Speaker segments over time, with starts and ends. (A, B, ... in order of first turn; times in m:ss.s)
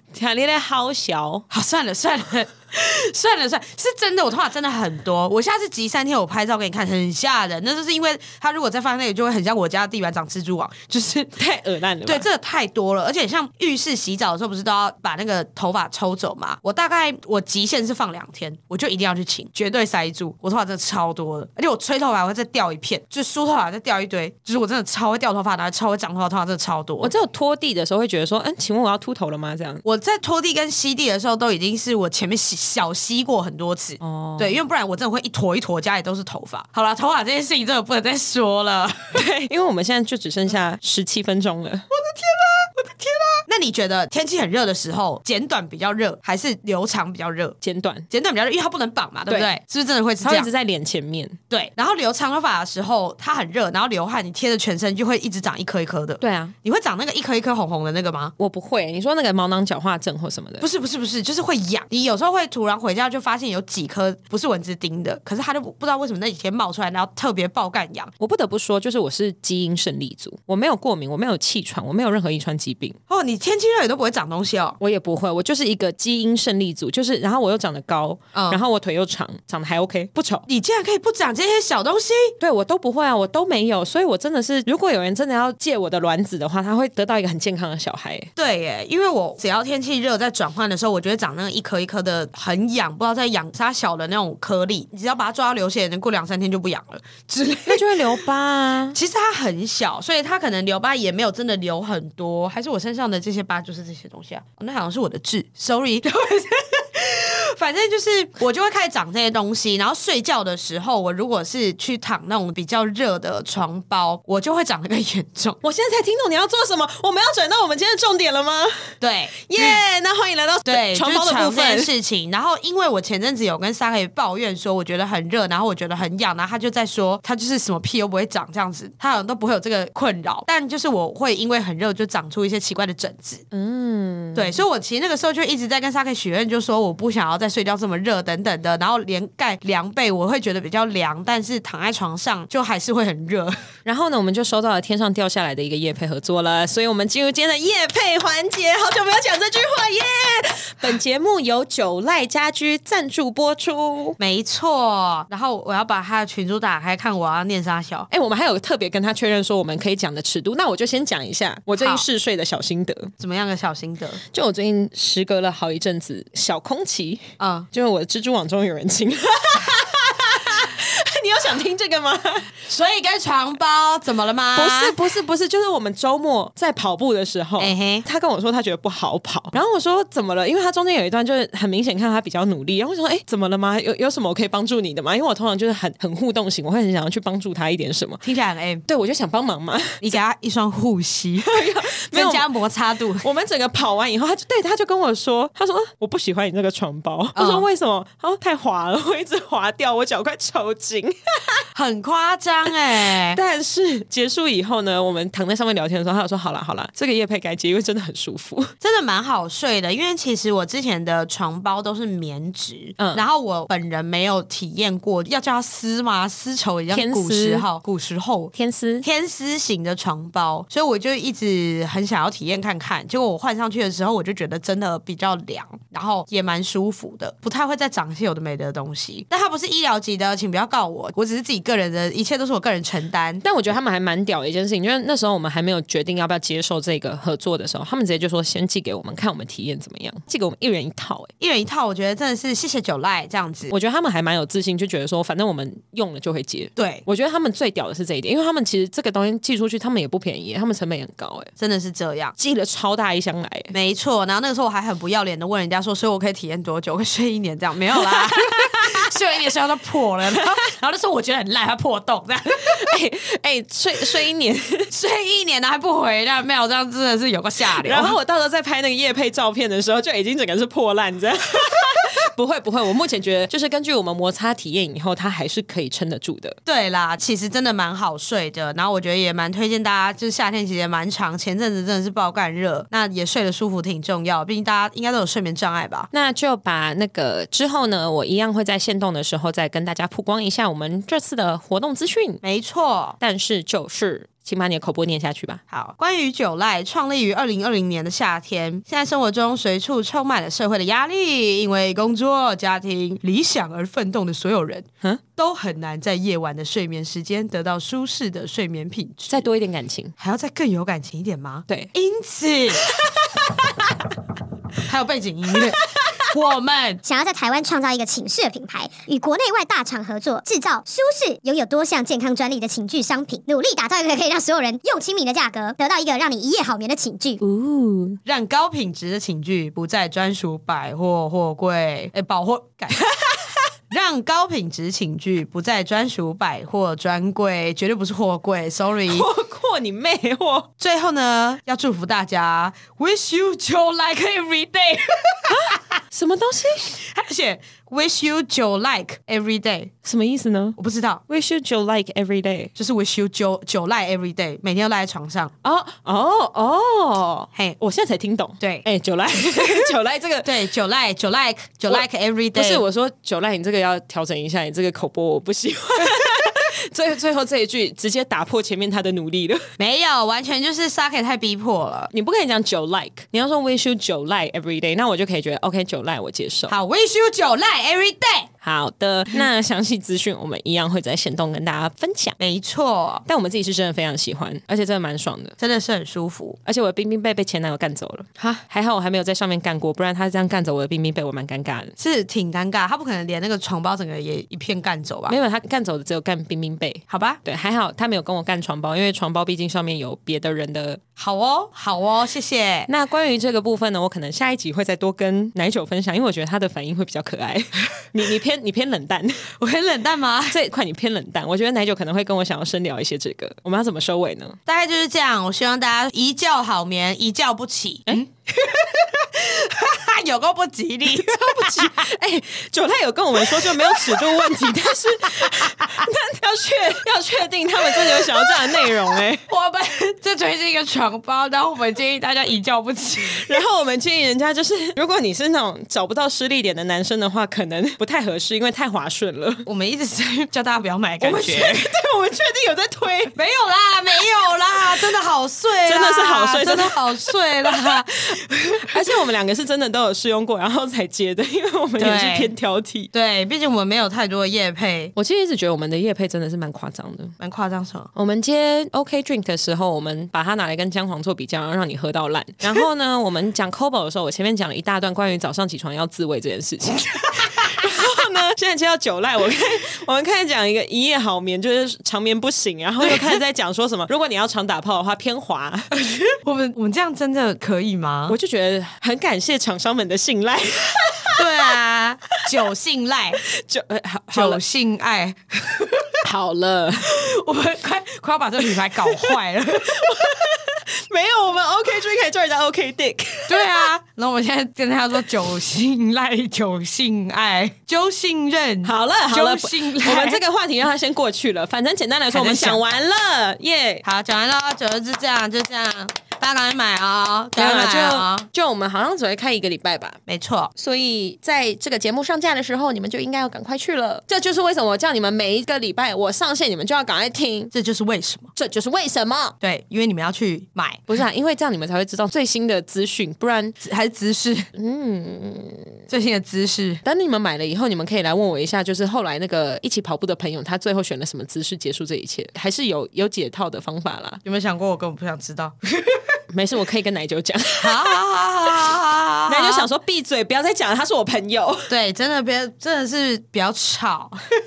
0:00.1-0:01.4 A
0:01.5-0:11.4 B
0:11.4-0:12.3 A
0:12.0-0:27.1 B
0:27.0-0:29.8 A
0:29.8-0:39.2 B
0:34.0-0:34.6 A
0:39.1-0:41.9 A
0:42.0-0:47.6 B
0:47.6-0:48.1 A
0:48.1-0:50.5 B
0:50.2-0:51.4 A
0:51.5-0:58.3 B
0:56.2-0:56.5 A
0:58.4-1:00.7 A
1:00.6-1:08.1 B
1:08.2-1:13.0 A
1:13.1-1:14.8 B
1:14.8-1:20.4 A
1:18.3-1:18.6 B
1:20.5-1:22.3 B
1:22.4-1:28.3 A
1:28.4-1:38.0 B
1:37.7-1:39.0 A
1:38.9-1:55.6 B
1:55.6-2:01.9 A
1:59.0-1:59.8 B
2:00.6-2:13.4 B
2:13.5-2:14.6 A
2:14.3-2:23.6 B
2:23.8-2:34.2 A
2:34.2-2:38.1 B
2:38.1-2:43.1 A
2:41.8-2:42.0 B
2:43.2-2:44.2 B
2:44.3-2:52.5 A
2:47.4-2:47.7 B
2:52.6-2:55.0 B
2:54.5-3:08.2 A
2:57.6-2:58.0 B
3:08.2-3:08.8 B
3:08.9-3:10.2 A
3:10.0-3:13.3 B
3:11.4-3:12.5 A
3:13.2-3:21.6 A
3:17.3-3:17.6 B
3:21.7-3:23.4 B
3:22.7-3:28.7 A
3:28.8-3:53.4 B
3:33.0-3:33.2 A
3:36.9-3:37.6 A
3:38.5-3:39.0 A
3:53.4-4:01.3 A
4:01.4-4:03.7 B
4:03.7-4:11.5 A
4:06.8-4:07.0 B
4:11.6-4:12.3 B
4:12.4-4:13.7 A
4:13.7-4:22.8 B
4:18.0-4:19.1 A
4:22.6-4:24.9 A
4:24.9-4:28.1 B
4:27.6-4:36.6 A
4:36.6-4:46.1 B
4:46.1-4:52.4 A
4:52.4-4:53.2 B
4:53.2-4:55.6 A
4:55.7-5:09.4 B
5:09.3-5:10.1 A
5:10.2-5:12.9 B
5:14.8-5:17.0 B
5:17.0-5:27.4 C
5:27.4-5:28.2 A
5:28.2-5:33.0 B
5:33.1-5:33.5 A
5:33.9-5:39.3 B
5:39.0-5:40.7 A
5:40.8-5:45.9 B
5:45.5-5:47.0 A
5:46.9-5:49.9 B
5:50.0-5:50.8 A
5:50.8-5:51.2 B
5:51.3-5:52.7 A
5:52.8-5:55.5 B
5:55.6-6:00.5 A
5:58.6-5:58.8 B
6:00.4-6:02.8 B
6:01.9-6:09.6 A
6:09.8-6:12.1 B
6:12.1-6:16.8 A
6:16.7-6:18.5 B
6:18.6-6:22.4 A
6:22.4-6:23.2 B
6:23.3-6:25.6 A
6:25.6-6:26.6 B
6:26.6-6:31.9 A
6:28.4-6:28.6 B
6:32.0-6:35.4 B
6:35.3-6:41.0 A
6:37.1-6:37.4 B
6:41.2-6:42.9 B
6:42.9-6:49.5 A
6:49.6-6:50.6 B
6:50.5-6:54.6 A
6:54.7-7:02.1 B
7:01.1-7:09.4 A
7:03.6-7:04.6 B
7:08.2-7:08.9 B
7:09.5-7:13.5 B
7:13.3-7:19.7 A
7:19.6-7:21.9 B
7:21.2-7:23.4 A
7:23.4-7:29.0 B
7:24.7-7:25.0 A
7:25.9-7:33.1 A
7:32.0-7:32.5 B
7:33.1-7:35.1 B
7:35.2-7:37.3 A
7:37.4-7:38.1 B
7:38.1-7:55.9 A
7:47.3-7:48.1 B
7:53.0-7:53.4 B
7:56.0-7:58.4 B
7:58.3-8:01.4 A
8:01.4-8:03.4 B
8:03.4-8:04.6 A
8:04.3-8:06.2 B
8:06.2-8:07.1 A
8:07.0-8:10.5 B
8:08.6-8:13.9 A
8:13.5-8:20.4 B
8:18.8-8:24.0 A
8:22.3-8:22.8 B
8:24.0-8:28.5 B
8:27.6-8:30.2 A
8:30.3-8:30.7 B
8:30.8-8:37.7 A
8:37.7-8:38.5 B
8:38.6-8:39.6 A
8:39.6-8:41.1 B
8:41.1-8:43.8 A
8:43.8-8:44.7 B
8:44.7-8:46.0 A
8:46.1-8:47.0 B
8:47.0-8:54.4 A
8:54.4-8:56.3 B
8:56.5-8:58.2 A
8:57.8-8:59.9 B
8:59.5-9:01.9 A
9:01.9-9:04.4 B